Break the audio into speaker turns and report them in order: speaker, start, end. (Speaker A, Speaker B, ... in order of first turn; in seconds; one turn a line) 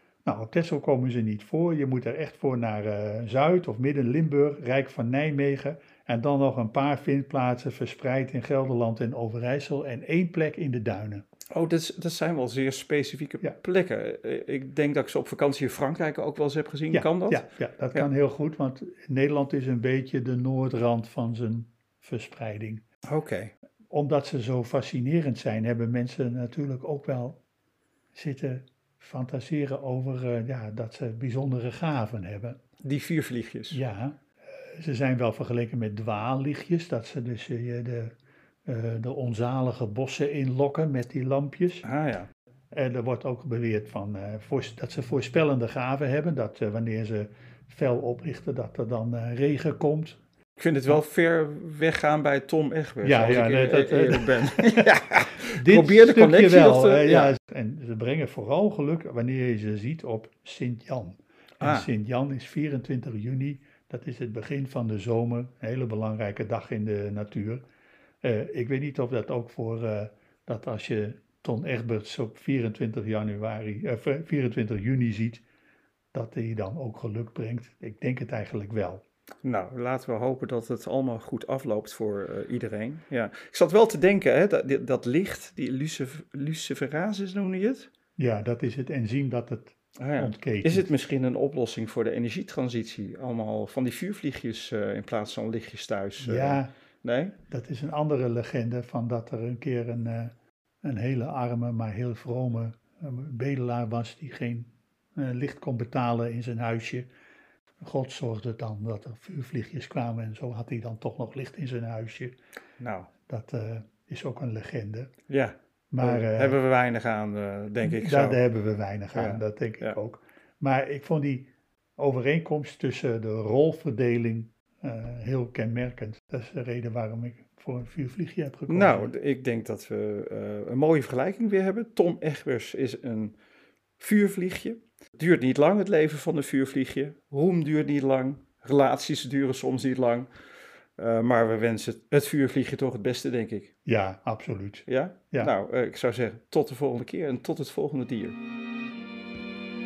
Speaker A: 0.2-11.2
Speaker B: 11.5-18.1
Speaker A: 16.9-22.8
Speaker B: 23.1-23.5
Speaker A: 23.9-27.4
Speaker A: 28.1-32.6
Speaker B: 32.8-33.8
Speaker A: 33.7-34.2
Speaker A: 34.8-38.1
Speaker A: 38.7-41.9
Speaker B: 41.8-42.3
Speaker A: 42.7-50.2
Speaker B: 50.6-57.3
Speaker A: 53.0-54.9
Speaker A: 55.5-67.6
Speaker B: 61.6-61.9
Speaker A: 68.2-75.4
Speaker A: 76.1-79.0
Speaker B: 79.4-87.9
Speaker A: 88.2-90.9
Speaker B: 90.0-97.3
Speaker A: 96.2-96.7
Speaker A: 97.5-107.1
Speaker A: 107.8-112.3
Speaker B: 112.8-113.1
Speaker A: 113.3-115.1
Speaker B: 115.3-118.4
Speaker A: 115.9-116.6
Speaker A: 117.8-129.1
Speaker B: 119.1-120.0
Speaker B: 128.7-133.4
Speaker B: 134.0-140.3
Speaker B: 141.0-143.7
Speaker A: 143.9-145.5
Speaker B: 144.9-148.4